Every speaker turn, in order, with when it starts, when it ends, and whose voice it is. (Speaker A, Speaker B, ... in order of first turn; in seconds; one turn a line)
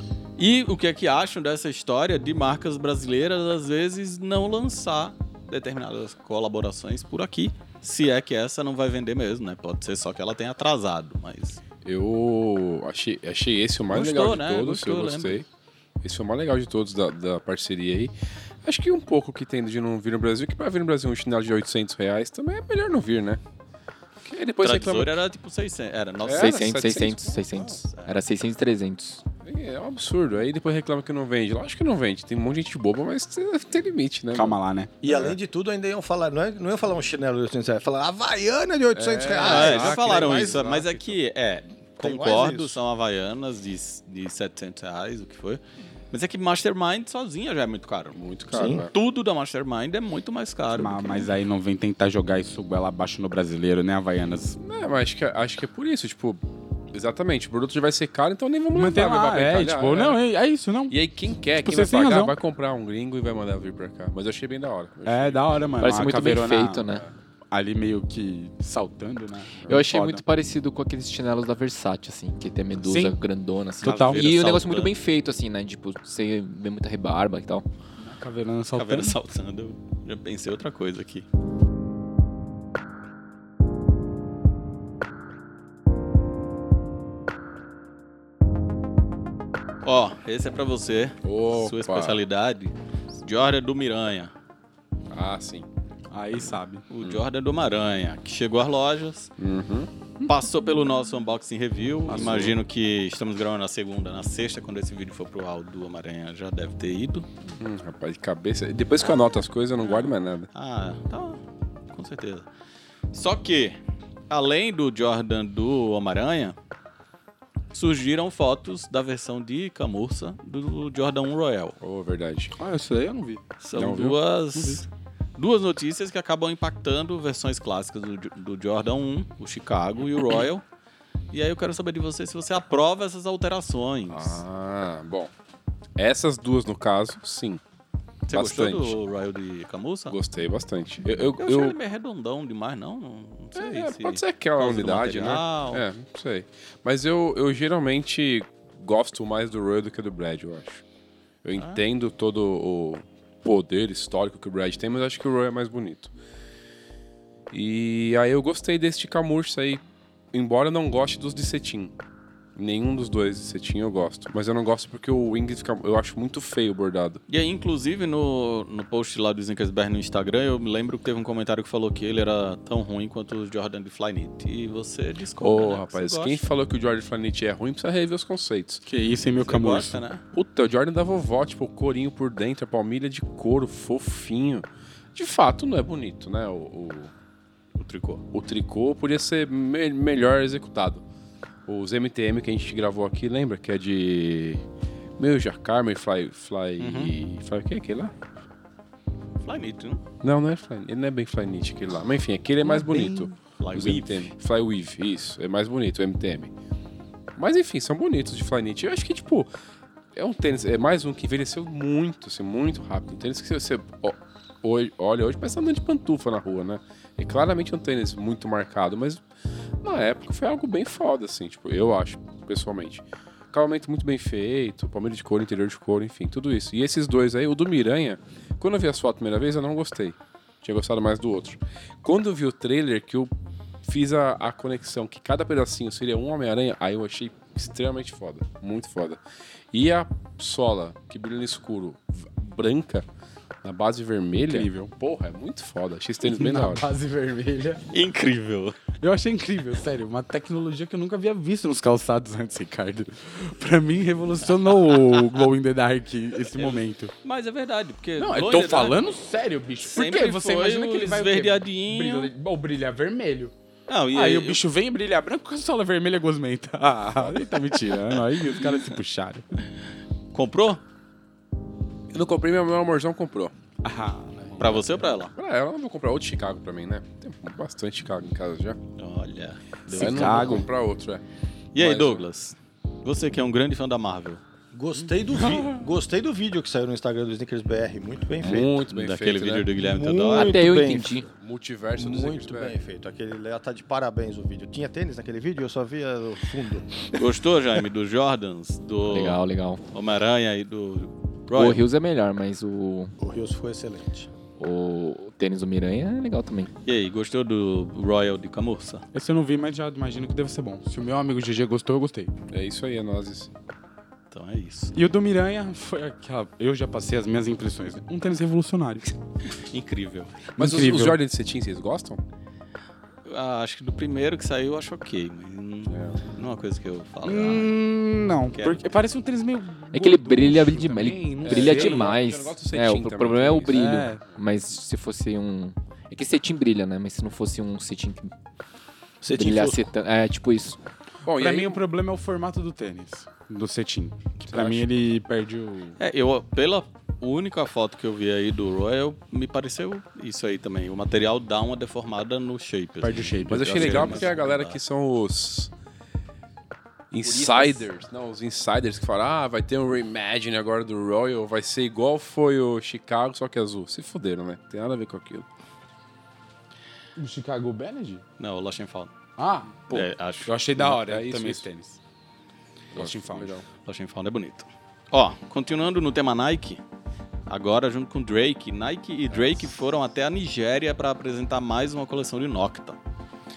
Speaker A: 0.4-11.6
Speaker B: 11.8-15.5
Speaker A: 13.9-15.4
Speaker B: 16.0-18.1
Speaker B: 18.6-23.4
Speaker B: 24.2-25.2
Speaker A: 24.6-26.8
Speaker B: 26.2-27.6
Speaker C: 26.3-29.2
Speaker A: 27.5-28.2
Speaker B: 29.4-35.4
Speaker D: 34.3-34.9
Speaker E: 35.0-40.7
Speaker B: 38.9-41.1
Speaker A: 39.4-48.2
Speaker E: 42.0-42.8
Speaker B: 48.1-48.9
Speaker E: 48.5-48.9
Speaker A: 48.7-51.3
Speaker D: 50.7-54.6
Speaker B: 54.6-60.2
Speaker D: 58.7-61.0
Speaker B: 60.9-65.8
Speaker D: 61.6-62.4
Speaker D: 65.1-66.8
Speaker C: 65.8-67.0
Speaker D: 67.5-70.2
Speaker C: 69.7-77.7
Speaker D: 72.9-73.2
Speaker D: 73.8-74.2
Speaker A: 73.8-74.9
Speaker D: 78.0-79.2
Speaker A: 78.8-81.2
Speaker A: 89.8-94.3
Speaker B: 91.2-92.2
Speaker B: 95.1-95.7
Speaker D: 96.1-96.8
Speaker A: 96.9-99.3
Speaker B: 99.4-99.9
Speaker A: 100.2-107.3
Speaker B: 102.1-102.6
Speaker B: 107.6-110.5
Speaker A: 109.8-111.4
Speaker A: 111.9-112.5
Speaker A: 113.1-113.8
Speaker A: 114.3-116.6
Speaker A: 117.7-121.8
Speaker B: 121.8-122.6
Speaker D: 122.6-123.5
Speaker A: 123.6-130.6
Speaker B: 123.7-124.2
Speaker D: 124.5-124.8
Speaker A: 131.3-134.4
Speaker B: 134.1-135.3
Speaker B: 136.0-137.6
Speaker A: 138.3-140.2
Speaker B: 138.3-139.0
Speaker B: 140.1-141.8
Speaker A: 141.2-145.8
Speaker B: 143.6-150.8
Speaker B: 151.4-156.1
Speaker A: 151.6-151.8
Speaker B: 157.5-159.8
Speaker B: 160.3-161.9
Speaker B: 162.6-167.2
Speaker A: 167.3-176.5
Speaker B: 175.4-178.8
Speaker D: 178.9-180.0
Speaker A: 179.4-180.2
Speaker B: 180.3-187.1
Speaker A: 187.8-188.2
Speaker B: 188.3-191.0
Speaker B: 191.7-194.6
Speaker B: 195.2-198.1
Speaker A: 196.8-197.1
Speaker A: 199.4-200.0
Speaker B: 200.2-206.5
Speaker A: 202.8-204.3
Speaker D: 202.8-203.2
Speaker B: 207.4-209.5
Speaker B: 210.1-219.2
Speaker B: 219.8-233.3
Speaker B: 233.8-239.2
Speaker B: 239.7-243.1
Speaker B: 243.6-246.8
Speaker D: 244.5-244.9
Speaker D: 246.2-247.8
Speaker A: 247.9-248.8
Speaker D: 249.0-257.1
Speaker A: 256.5-259.1
Speaker D: 258.2-263.5
Speaker A: 259.8-262.3
Speaker A: 263.9-264.6
Speaker D: 264.1-269.5
Speaker A: 270.3-270.8
Speaker B: 272.1-273.5
Speaker D: 273.8-274.9
Speaker A: 274.6-275.3
Speaker B: 275.3-278.8
Speaker A: 279.0-280.6
Speaker D: 279.9-280.7
Speaker B: 279.9-281.2
Speaker A: 281.8-284.4
Speaker B: 281.8-282.3
Speaker E: 284.7-288.8
Speaker B: 288.4-289.7
Speaker A: 288.9-290.7
Speaker E: 289.8-291.2
Speaker C: 290.3-291.3
Speaker B: 291.3-292.8
Speaker E: 292.0-297.2
Speaker A: 297.1-301.9
Speaker C: 299.1-299.8
Speaker C: 301.5-303.1
Speaker E: 303.2-304.3
Speaker C: 304.6-306.7
Speaker A: 306.9-309.0
Speaker D: 309.1-312.3
Speaker B: 312.5-313.5
Speaker A: 314.3-314.9
Speaker D: 314.9-319.1
Speaker A: 319.5-320.5
Speaker D: 320.6-321.2
Speaker B: 320.6-322.2
Speaker A: 323.3-327.7
Speaker B: 325.9-326.2
Speaker D: 327.2-332.1
Speaker A: 328.5-328.8
Speaker C: 329.9-338.3
Speaker B: 331.4-334.1
Speaker D: 333.7-334.2
Speaker E: 339.2-339.9
Speaker C: 339.3-340.8
Speaker B: 341.2-341.8
Speaker D: 341.3-346.0
Speaker A: 344.5-344.8
Speaker A: 346.0-354.8
Speaker D: 353.0-354.3
Speaker B: 353.5-355.7
Speaker B: 357.1-365.5
Speaker C: 357.2-357.8
Speaker D: 367.2-368.2
Speaker A: 368.4-369.1
Speaker D: 369.4-372.0
Speaker A: 369.9-370.5
Speaker B: 370.8-371.6
Speaker D: 372.9-373.6
Speaker B: 372.9-373.6
Speaker A: 373.9-376.8
Speaker A: 377.5-383.0
Speaker B: 379.3-379.6